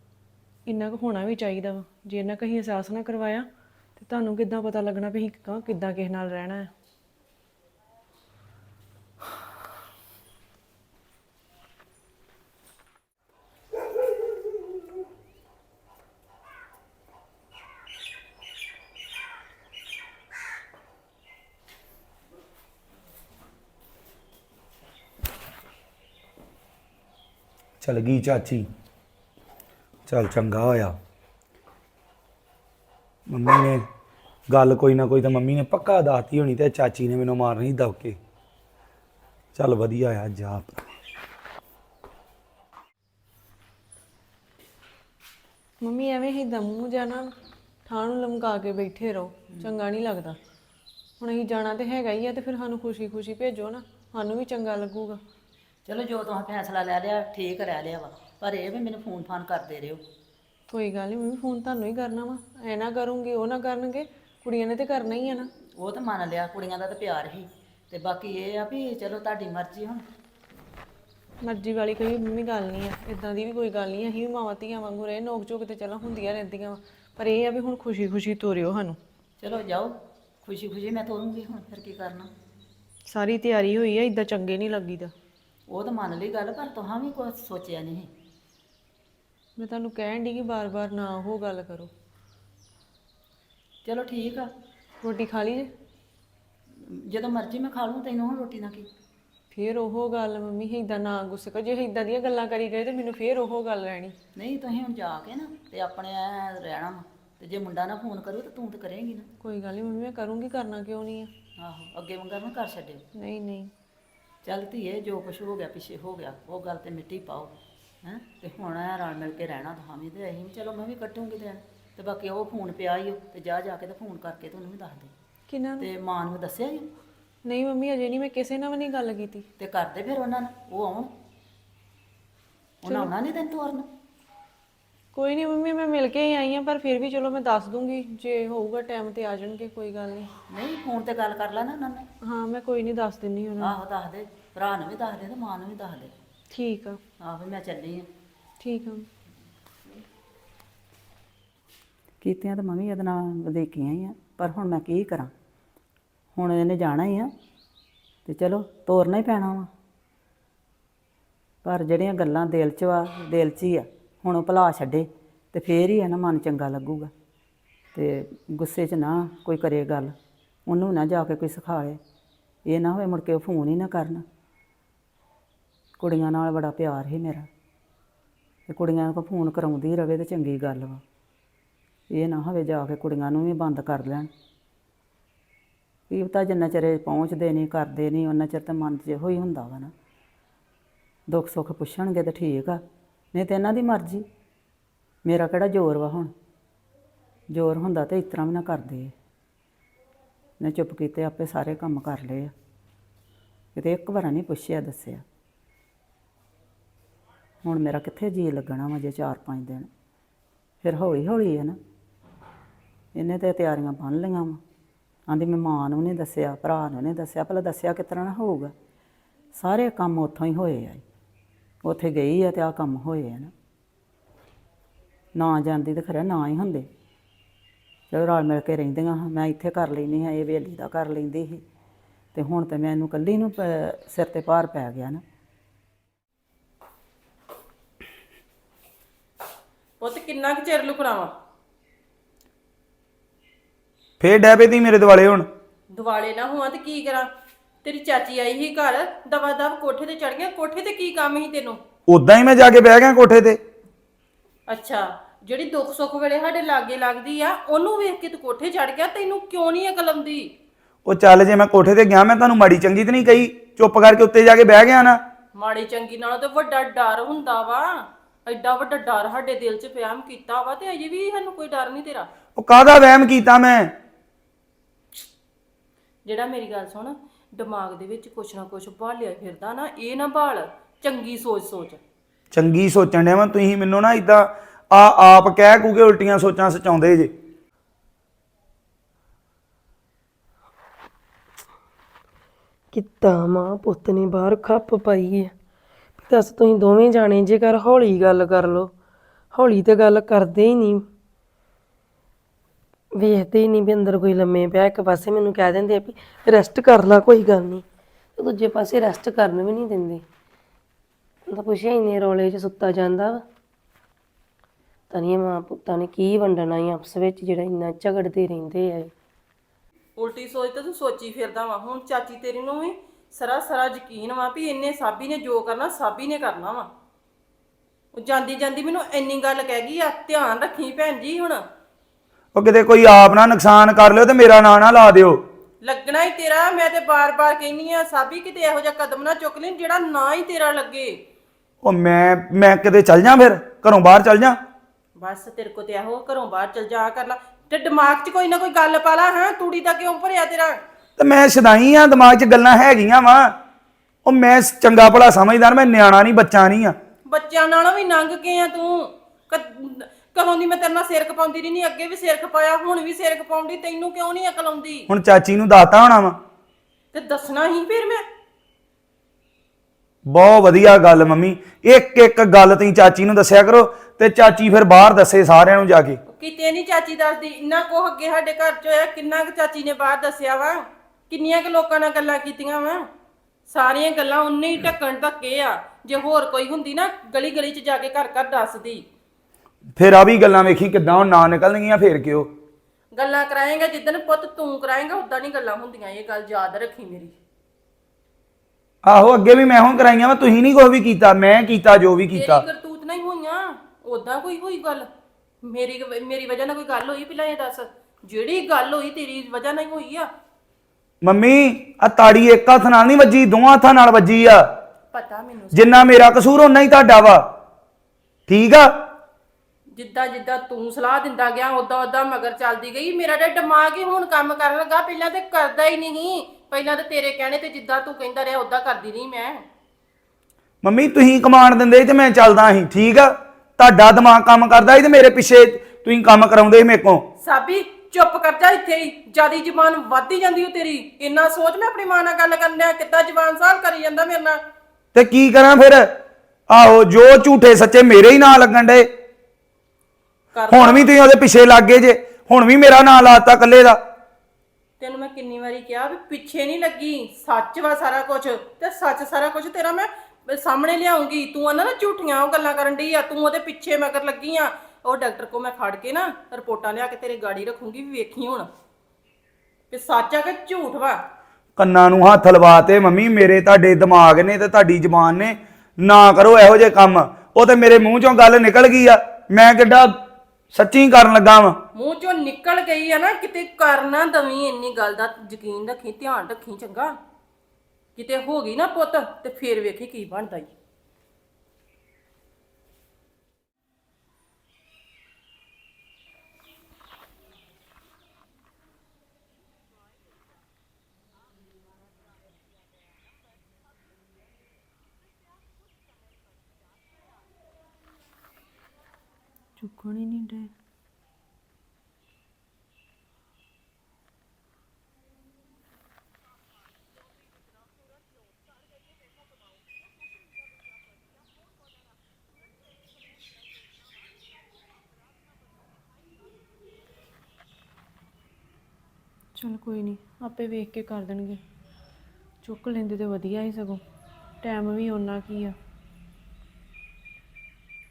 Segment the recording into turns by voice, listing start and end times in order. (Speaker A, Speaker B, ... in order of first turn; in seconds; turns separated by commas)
Speaker A: 0.7-6.7, Speaker B: 27.8-28.7, Speaker B: 30.1-31.0, Speaker B: 33.3-33.9, Speaker B: 34.5-38.2, Speaker B: 39.5-40.9, Speaker A: 45.8-47.3, Speaker A: 47.9-50.4, Speaker A: 51.2-55.2, Speaker C: 55.9-60.0, Speaker A: 60.7-65.5, Speaker C: 65.8-70.0, Speaker A: 71.4-79.0, Speaker C: 79.4-82.3, Speaker A: 83.1-85.1, Speaker C: 85.7-88.1, Speaker A: 89.6-91.9, Speaker C: 93.8-94.5, Speaker A: 95.0-95.7, Speaker C: 96.8-98.9, Speaker A: 99.5-104.2, Speaker C: 104.4-109.3, Speaker A: 109.4-111.3, Speaker C: 111.6-113.0, Speaker A: 113.2-113.7, Speaker C: 114.4-125.1, Speaker A: 125.5-125.9, Speaker C: 125.8-126.9, Speaker A: 127.5-129.4, Speaker C: 129.6-131.1, Speaker C: 132.8-133.9, Speaker A: 135.1-140.3, Speaker C: 140.5-142.1, Speaker A: 142.2-143.8, Speaker C: 143.6-146.2, Speaker A: 146.5-147.0, Speaker C: 147.2-148.1, Speaker A: 148.6-149.1, Speaker C: 152.2-155.3, Speaker C: 156.3-157.3, Speaker C: 158.3-159.7, Speaker C: 161.6-167.1, Speaker C: 167.9-170.2, Speaker C: 170.7-172.0, Speaker C: 172.7-174.2, Speaker C: 176.0-177.5, Speaker C: 178.7-181.0, Speaker C: 182.1-184.3, Speaker C: 186.1-189.9, Speaker C: 191.3-192.8, Speaker C: 193.3-194.3, Speaker C: 195.2-196.3, Speaker C: 197.5-199.1, Speaker C: 200.6-202.5, Speaker C: 203.8-205.2, Speaker C: 207.6-209.9, Speaker C: 210.8-211.8, Speaker C: 213.2-214.6, Speaker C: 215.3-218.7, Speaker C: 219.5-221.0, Speaker C: 221.8-223.5, Speaker C: 225.3-226.9, Speaker C: 228.1-231.6, Speaker C: 232.3-235.2, Speaker D: 240.0-241.3, Speaker B: 244.2-245.5, Speaker D: 245.9-247.3, Speaker D: 247.8-251.8, Speaker B: 252.1-253.6, Speaker D: 254.7-260.5, Speaker B: 261.1-265.2, Speaker D: 265.6-267.9, Speaker D: 268.5-272.3, Speaker B: 272.6-273.9, Speaker D: 276.2-282.0, Speaker B: 282.5-287.3, Speaker E: 292.9-295.5, Speaker E: 296.3-298.9, Speaker E: 299.5-301.0, Speaker E: 303.2-307.8, Speaker E: 308.4-310.2, Speaker E: 311.5-313.4, Speaker E: 315.1-319.1, Speaker D: 320.2-326.9, Speaker D: 328.1-331.6, Speaker B: 332.5-335.4, Speaker D: 335.8-341.1, Speaker B: 341.8-344.6, Speaker D: 345.2-350.8, Speaker B: 351.2-353.5, Speaker B: 354.2-357.0, Speaker D: 357.3-365.1, Speaker B: 365.1-366.4, Speaker D: 367.1-368.2, Speaker B: 370.3-376.2, Speaker D: 376.3-383.1, Speaker D: 383.7-389.1, Speaker B: 390.0-392.5, Speaker D: 393.1-397.3, Speaker B: 399.0-402.7, Speaker D: 402.3-405.1, Speaker D: 405.6-410.3, Speaker B: 411.2-414.6, Speaker D: 415.1-416.1, Speaker B: 415.7-417.5, Speaker B: 418.5-418.9, Speaker D: 419.9-429.6, Speaker B: 430.8-437.2, Speaker D: 437.4-444.6, Speaker B: 445.1-446.1, Speaker B: 446.7-449.1, Speaker D: 450.5-451.1, Speaker B: 450.7-454.0, Speaker D: 455.0-468.7, Speaker D: 469.9-471.2, Speaker B: 471.8-480.2, Speaker B: 480.7-481.8, Speaker D: 481.9-487.1, Speaker D: 488.2-490.7, Speaker A: 509.8-510.7, Speaker A: 529.6-531.6, Speaker A: 532.6-534.0, Speaker A: 534.6-535.8